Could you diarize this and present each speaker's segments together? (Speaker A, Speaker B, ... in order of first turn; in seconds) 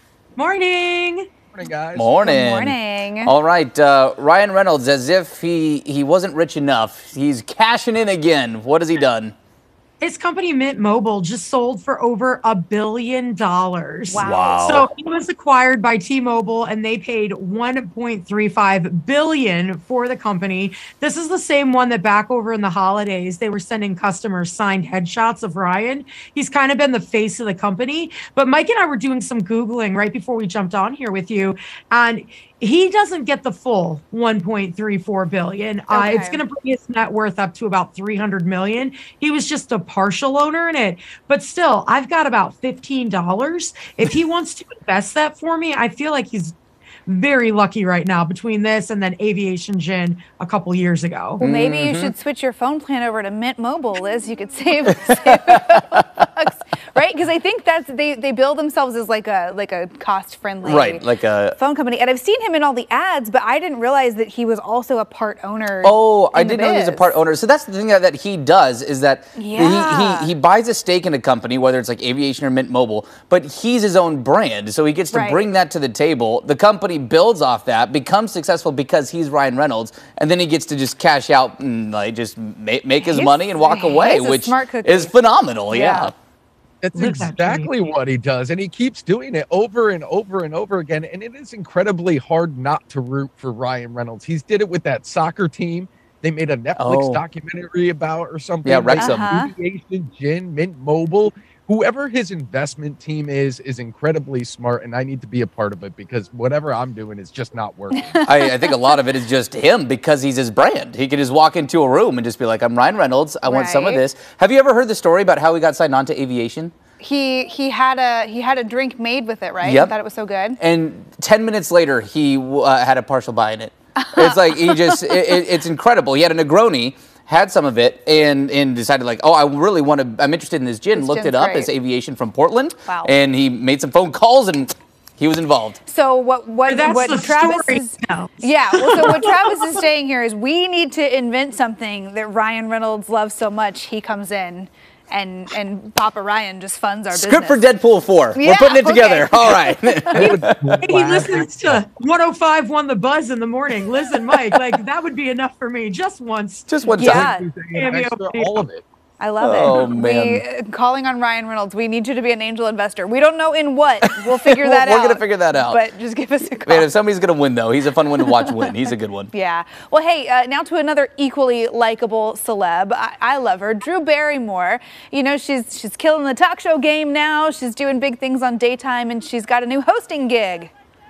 Speaker A: 0.4-1.3, 10.0-51.4, 87.0-87.7, 136.7-139.8, 150.8-156.9, 157.7-158.6
Speaker B: 1.5-2.1, 86.8-108.2, 150.1-151.8, 157.0-158.8
Speaker C: 1.9-9.3, 14.2-14.9, 51.4-52.1, 55.1-55.8, 60.6-61.6, 65.8-86.1, 96.8-97.2, 98.6-99.3, 108.2-116.7, 119.6-119.9, 120.6-135.8, 147.1-151.4, 156.7-157.3, 159.4-160.4, 164.0-165.8, 166.7-169.3
Speaker D: 2.2-3.3, 14.1-14.7, 35.9-36.4, 51.4-67.1, 69.4-70.3, 75.1-75.4, 83.0-85.1, 85.7-86.1, 99.0-99.5, 108.0-108.8, 113.4-114.0, 117.0-120.6, 124.0-125.2, 130.9-131.7, 132.9-133.1, 135.9-147.6, 148.3-150.4, 157.0-157.5, 159.2-166.9, 168.3-168.7, 169.3-180.7